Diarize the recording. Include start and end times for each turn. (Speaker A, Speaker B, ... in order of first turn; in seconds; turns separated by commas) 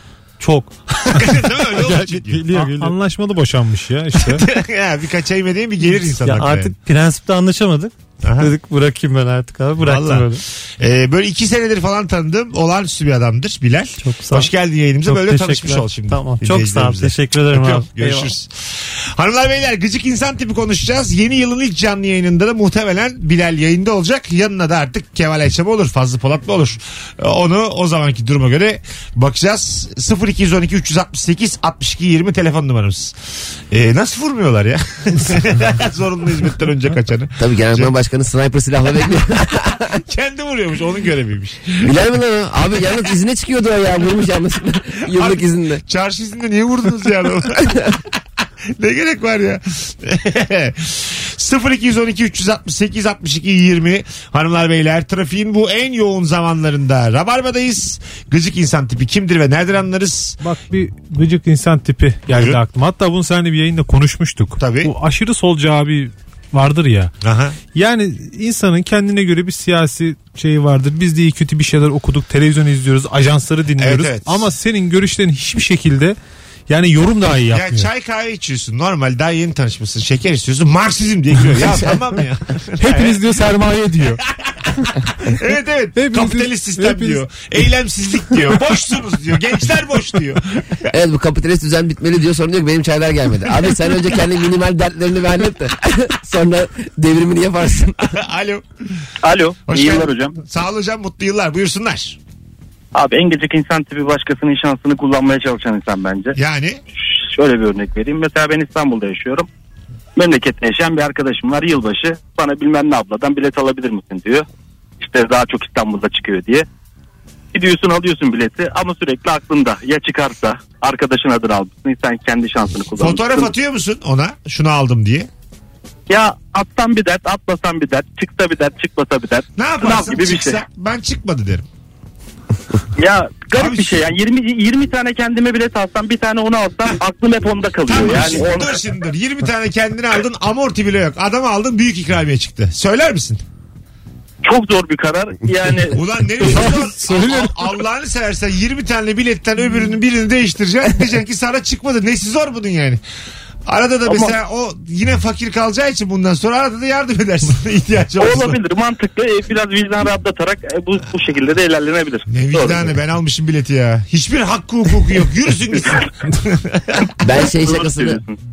Speaker A: 0.4-2.9, Speaker B: 1.1-2.4, Speaker C: 2.5-4.4, Speaker B: 4.3-6.7, Speaker A: 6.0-10.4, Speaker B: 8.2-8.5, Speaker B: 9.8-18.5, Speaker A: 14.0-14.5, Speaker A: 15.0-18.3, Speaker B: 19.1-33.1, Speaker B: 33.7-37.9, Speaker D: 37.4-40.0, Speaker B: 39.9-41.9, Speaker D: 41.8-45.8, Speaker B: 45.1-48.1, Speaker B: 48.8-60.4, Speaker C: 60.4-67.1, Speaker B: 62.3-62.6, Speaker B: 64.6-64.9, Speaker B: 67.2-67.6, Speaker C: 67.7-76.2, Speaker B: 73.8-74.5, Speaker C: 76.7-77.9, Speaker B: 77.5-83.2, Speaker C: 82.8-84.2, Speaker B: 84.2-90.9, Speaker C: 86.0-87.2, Speaker D: 90.9-98.2, Speaker B: 98.1-98.6, Speaker E: 99.2-100.4, Speaker B: 99.7-102.2, Speaker E: 102.9-106.4, Speaker B: 106.3-106.8, Speaker E: 107.1-109.5, Speaker E: 110.2-114.5, Speaker E: 115.0-116.7, Speaker E: 117.5-123.5, Speaker B: 123.0-125.3, Speaker E: 126.1-130.6, Speaker B: 129.6-131.6, Speaker E: 132.9-138.8, Speaker B: 133.5-134.1, Speaker B: 137.9-143.4, Speaker E: 144.4-146.0, Speaker B: 145.9-153.0, Speaker C: 146.4-147.7, Speaker B: 153.7-158.6, Speaker E: 154.1-154.3, Speaker E: 158.2-162.9, Speaker B: 162.3-167.1, Speaker D: 167.2-168.2, Speaker E: 167.5-168.3